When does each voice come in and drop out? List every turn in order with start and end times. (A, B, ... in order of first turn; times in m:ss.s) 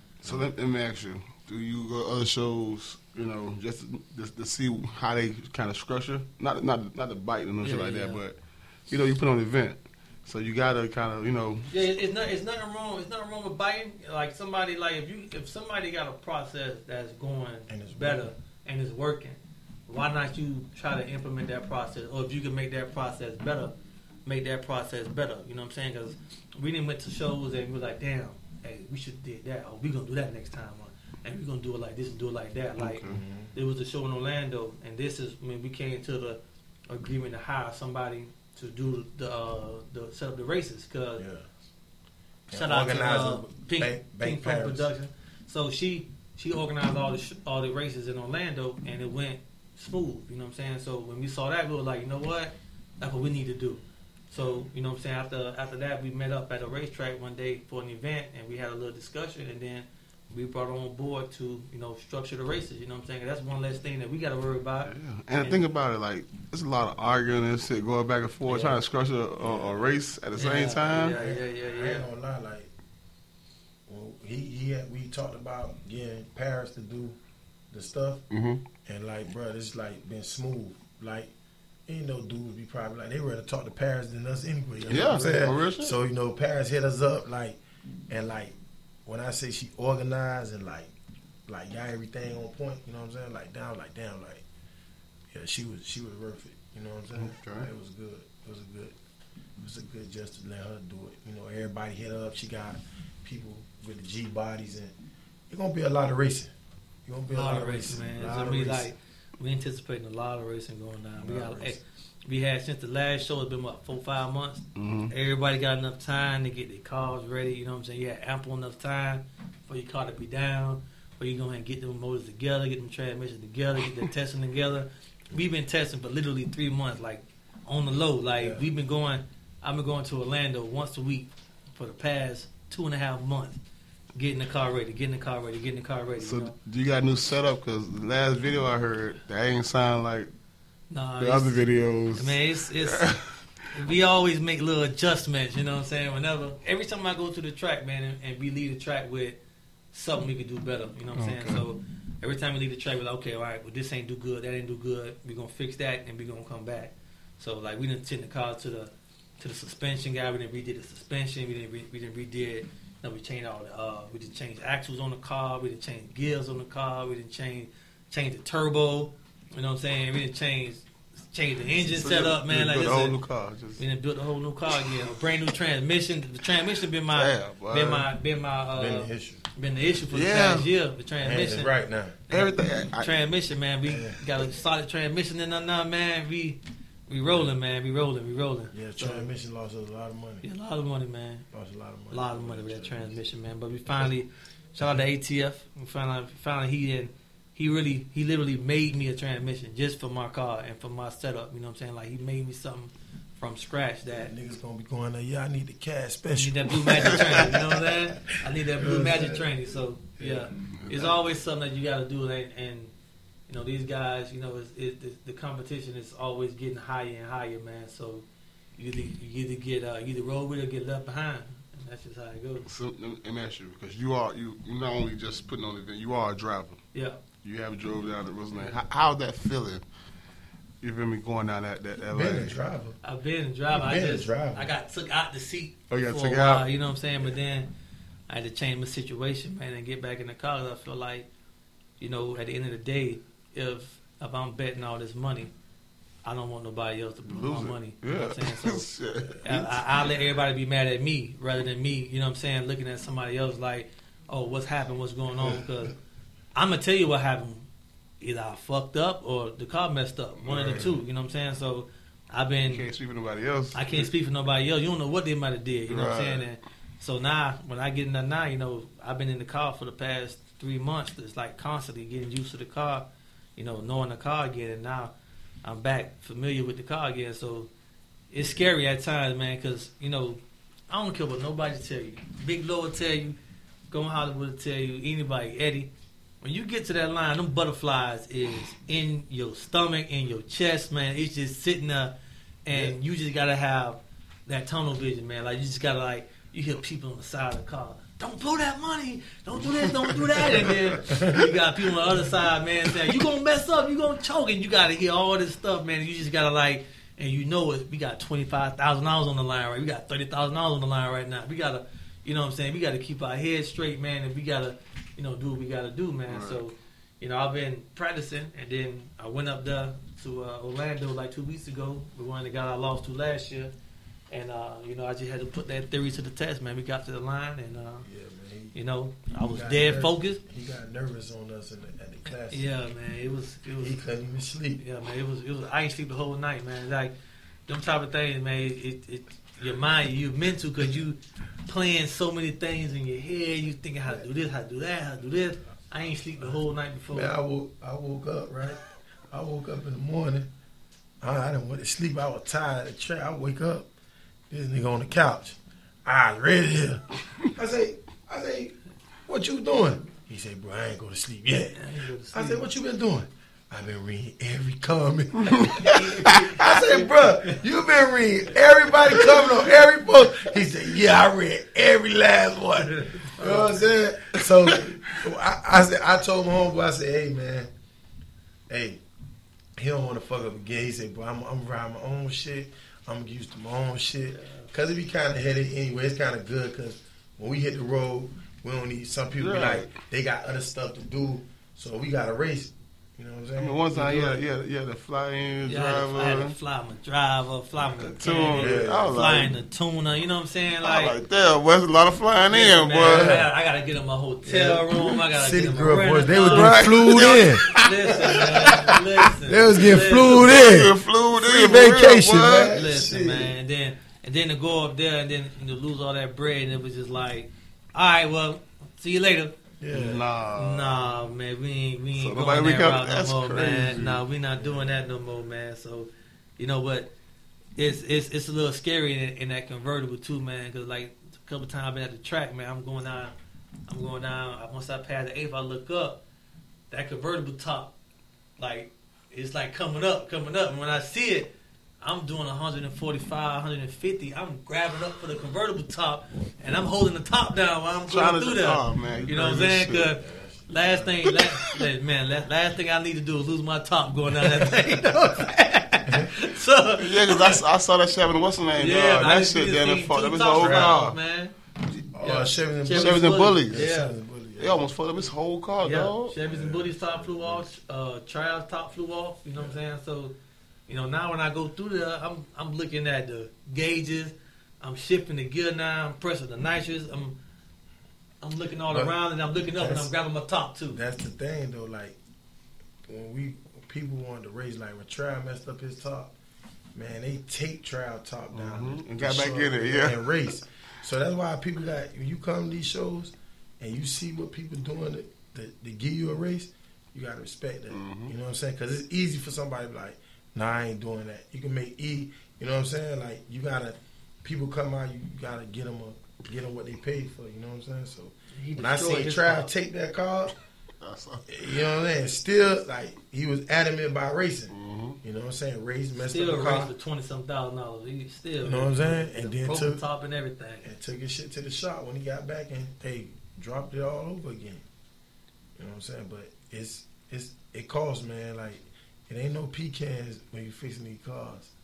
0:00.2-0:11.7 A
0:07.6-0:08.2 B
0:11.7-0:23.7 B
0:17.7-0:18.3 C
0:24.2-0:36.4 B
0:32.8-0:33.2 A
0:33.1-0:33.5 C
0:36.9-0:41.2 B
0:41.2-0:41.5 C
0:42.5-0:44.8 C
0:42.5-1:05.6 B
1:04.9-1:11.1 A
1:08.5-1:08.8 B
1:09.5-1:09.7 C
1:10.4-1:12.0 B
1:10.9-1:12.7 C
1:13.9-1:17.2 C
1:17.7-1:18.2 C
1:18.3-1:18.6 A
1:18.8-1:21.3 C
1:21.9-1:30.9 C
1:24.9-1:25.9 A
1:31.5-1:34.4 C
1:35.3-1:38.9 C
1:37.1-1:37.7 A
1:39.6-1:44.9 C
1:45.5-1:46.5 C
1:47.0-1:48.9 C
1:47.3-2:13.6 B
1:51.2-1:51.7 C
1:51.3-1:51.6 A
1:54.8-1:55.1 A
2:08.4-2:08.6 C
2:14.1-2:16.5 B
2:16.2-2:20.3 A
2:20.9-2:23.1 B
2:21.2-2:23.7 A
2:23.7-2:29.4 B
2:29.9-2:53.2 B
2:31.1-2:31.6 A
2:51.9-2:53.8 A
2:53.8-3:01.7 B
2:57.1-2:58.1 A
2:58.8-2:59.4 C
3:00.1-3:00.7 A
3:01.2-3:02.2 C
3:02.3-3:08.7 B
3:02.3-3:03.1 A
3:03.8-3:04.2 C
3:08.7-3:10.4 C
3:10.4-3:11.4 B
3:11.5-3:13.2 C
3:12.1-3:24.3 B
3:24.1-3:28.0 C
3:26.4-3:32.9 B
3:27.1-3:27.4 A
3:28.8-3:29.5 C
3:30.2-3:31.1 C
3:33.5-3:38.2 B
3:38.8-3:42.6 B
3:42.6-3:46.8 A
3:46.9-3:47.2 B
3:47.4-3:49.8 A
3:50.8-3:52.6 A
3:52.1-3:53.0 C
3:53.0-3:57.7 B
3:53.7-3:54.7 C
3:55.9-3:56.7 A
3:58.3-4:01.3 B
4:02.0-4:05.5 B
4:06.2-4:08.9 B
4:07.3-4:10.1 A
4:09.4-4:16.0 B
4:16.5-4:17.6 B
4:18.2-4:22.8 B
4:20.4-4:21.0 A
4:22.7-4:24.1 A
4:23.7-4:37.7 B
4:25.9-4:26.4 A
4:38.3-4:43.4 B
4:43.9-4:45.9 B
4:46.4-5:23.7 B
5:00.6-5:00.9 A
5:01.1-5:01.5 C
5:16.3-5:16.6 A
5:24.3-5:28.1 B
5:28.0-5:28.8 C
5:28.7-5:30.4 B
5:29.4-5:32.6 C
5:32.5-5:34.0 B
5:33.8-5:34.8 C
5:34.8-5:37.1 B
5:37.7-5:47.3 B
5:47.1-5:50.5 C
5:51.2-5:53.9 C
5:54.5-5:57.0 C
5:57.5-5:58.8 C
5:59.3-6:17.7 C
6:01.7-6:02.6 B
6:05.4-6:06.4 A
6:05.8-6:07.6 B
6:12.8-6:13.7 B
6:14.3-6:15.2 A
6:18.7-6:19.0 C
6:19.8-6:34.4 C
6:24.3-6:24.7 B
6:29.4-6:29.9 A
6:33.6-6:36.5 A
6:35.7-6:41.1 B
6:38.0-6:39.5 A
6:38.5-6:39.2 C
6:40.8-6:43.4 A
6:42.5-6:50.5 B
6:43.1-6:43.4 C
6:44.4-6:47.7 C
6:46.5-6:49.0 A
6:49.4-6:53.5 C
6:50.2-6:52.7 A
6:52.7-6:59.6 B
6:59.8-7:00.2 C
6:59.9-7:01.0 A
7:00.5-7:07.1 B
7:02.2-7:04.2 A
7:07.8-7:13.3 B
7:13.9-7:16.2 B
7:16.9-7:17.9 B
7:18.6-7:37.6 B
7:28.1-7:30.1 A
7:30.1-7:31.2 C
7:31.3-7:31.7 A
7:36.1-7:36.3 C
7:37.0-7:41.2 A
7:38.8-7:41.5 B
7:40.6-7:40.9 C
7:42.1-7:44.9 C
7:42.2-7:44.1 B
7:42.9-7:43.8 A
7:44.6-7:46.3 A
7:45.8-7:50.3 B
7:46.4-7:47.6 C
7:50.9-7:57.4 B
7:58.4-8:01.0 B
7:59.7-8:00.1 C
8:00.9-8:02.2 C
8:03.1-8:06.4 C
8:06.9-8:30.5 C
8:08.5-8:10.3 A
8:17.9-8:18.3 A
8:28.6-8:29.7 B
8:31.0-8:31.5 A
8:31.5-8:36.9 C
8:34.7-8:35.2 A
8:36.2-8:40.9 B
8:38.6-8:40.0 C
8:40.8-8:44.8 C
8:45.8-8:51.7 C